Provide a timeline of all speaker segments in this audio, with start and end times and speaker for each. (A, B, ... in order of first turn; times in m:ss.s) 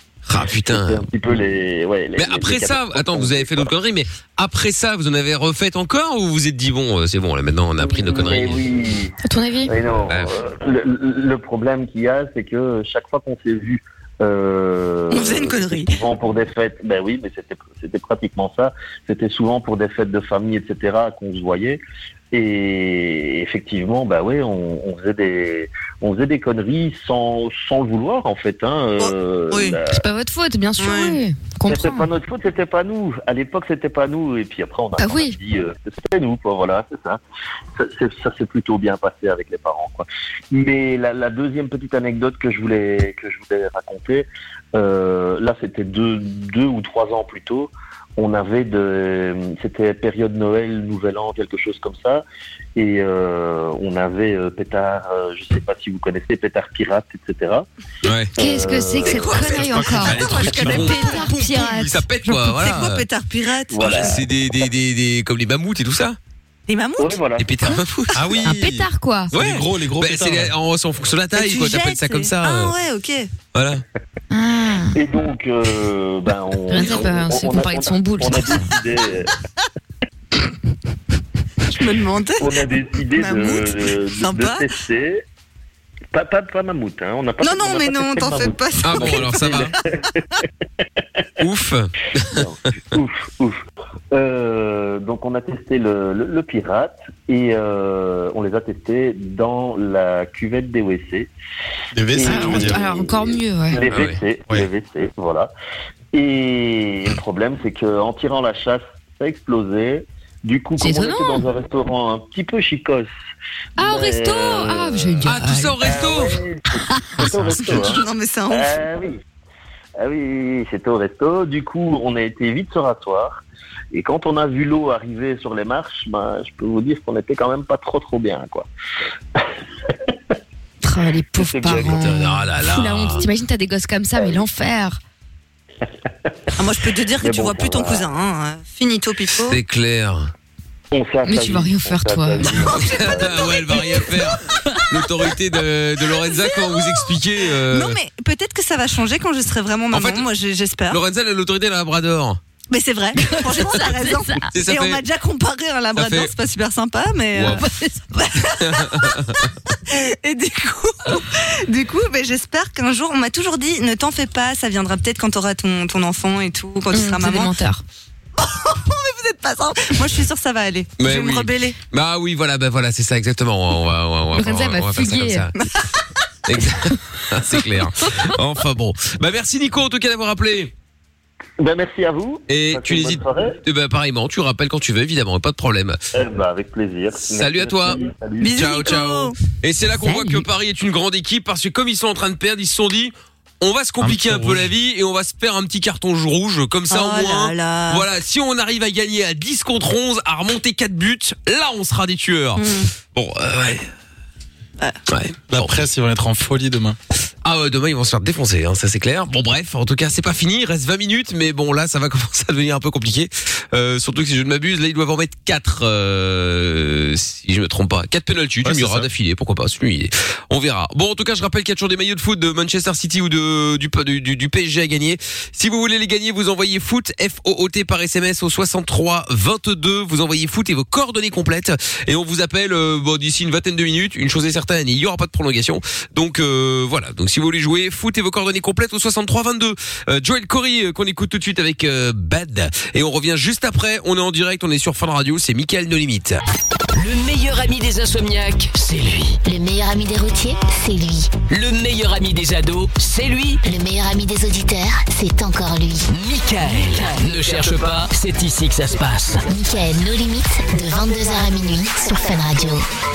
0:00.3-0:01.0 A
0:00.5-0:03.7 B
0:02.2-0:08.7 A
0:07.8-0:09.2 B
0:09.2-0:09.7 C
0:09.7-0:21.8 B
0:15.1-0:16.0 D
0:22.3-0:30.0 B
0:29.0-0:29.8 D
0:29.9-0:32.1 C
0:30.8-0:31.2 D
0:31.7-0:37.2 B
0:35.0-0:35.4 C
0:37.8-0:52.2 B
0:52.8-0:57.7 B
0:58.0-0:58.3 A
0:58.4-0:59.9 B
0:58.4-1:00.2 C
0:59.4-1:00.9 E
1:00.0-1:01.3 D
1:00.0-1:03.0 A
1:00.7-1:02.6 C
1:02.5-1:04.2 D
1:03.7-1:04.3 B
1:03.8-1:06.2 A
1:06.7-1:07.2 D
1:07.0-1:07.8 B
1:07.4-1:08.4 A
1:08.1-1:10.5 E
1:08.4-1:09.3 C
1:09.3-1:12.7 A
1:11.3-1:13.3 D
1:13.5-1:13.8 A
1:14.3-1:15.0 C
1:14.9-1:19.3 B
1:16.7-1:18.7 C
1:21.7-1:22.6 D
1:22.4-1:25.2 B
1:23.1-1:24.7 D
1:26.1-1:30.2 B
1:27.4-1:29.8 D
1:28.8-1:29.7 A
1:31.4-1:32.5 A
1:32.3-1:41.3 B
1:41.9-1:42.8 E
1:42.1-1:45.5 B
1:42.2-1:43.8 C
1:43.9-1:44.2 A
1:46.1-1:53.1 B
1:50.8-1:51.4 C
1:53.8-1:55.8 C
1:53.8-1:59.2 B
1:55.3-1:56.4 A
1:57.2-1:57.6 E
1:57.7-1:58.8 D
2:00.0-2:08.7 B
2:09.4-2:10.1 B
2:10.8-2:15.0 C
2:11.4-2:12.4 B
2:11.7-2:13.2 A
2:16.6-2:19.6 D
2:17.2-2:18.1 B
2:19.4-2:20.3 A
2:20.9-2:23.9 B
2:21.2-2:22.7 C
2:22.6-2:24.2 D
2:22.9-2:28.0 A
2:26.4-2:27.2 D
2:27.7-2:31.0 D
2:29.9-2:30.3 A
2:30.9-2:32.4 A
2:32.7-2:39.2 D
2:33.4-2:34.5 C
2:33.4-2:33.9 A
2:34.5-2:35.0 A
2:36.0-2:36.3 A
2:37.3-2:37.6 A
2:37.6-2:38.0 C
2:38.4-2:39.5 A
2:39.9-2:47.5 D
2:46.9-2:47.8 C
2:48.4-2:51.8 D
2:51.0-2:55.5 A
2:54.4-2:55.5 C
2:56.4-3:00.7 A
3:01.6-3:03.6 B
3:02.5-3:06.0 A
3:06.1-3:08.6 B
3:07.3-3:08.0 A
3:08.4-3:09.3 D
3:08.5-3:23.9 A
3:09.9-3:10.4 C
3:14.0-3:14.7 E
3:16.9-3:18.1 D
3:22.6-3:22.9 D
3:25.1-3:25.9 A
3:25.5-3:27.0 E
3:27.4-4:06.4 A
3:38.6-3:39.1 E
4:06.9-4:09.4 F
4:09.4-4:11.3 G
4:11.5-4:13.6 F
4:13.6-4:16.1 G
4:16.1-4:19.4 F
4:19.5-4:22.8 G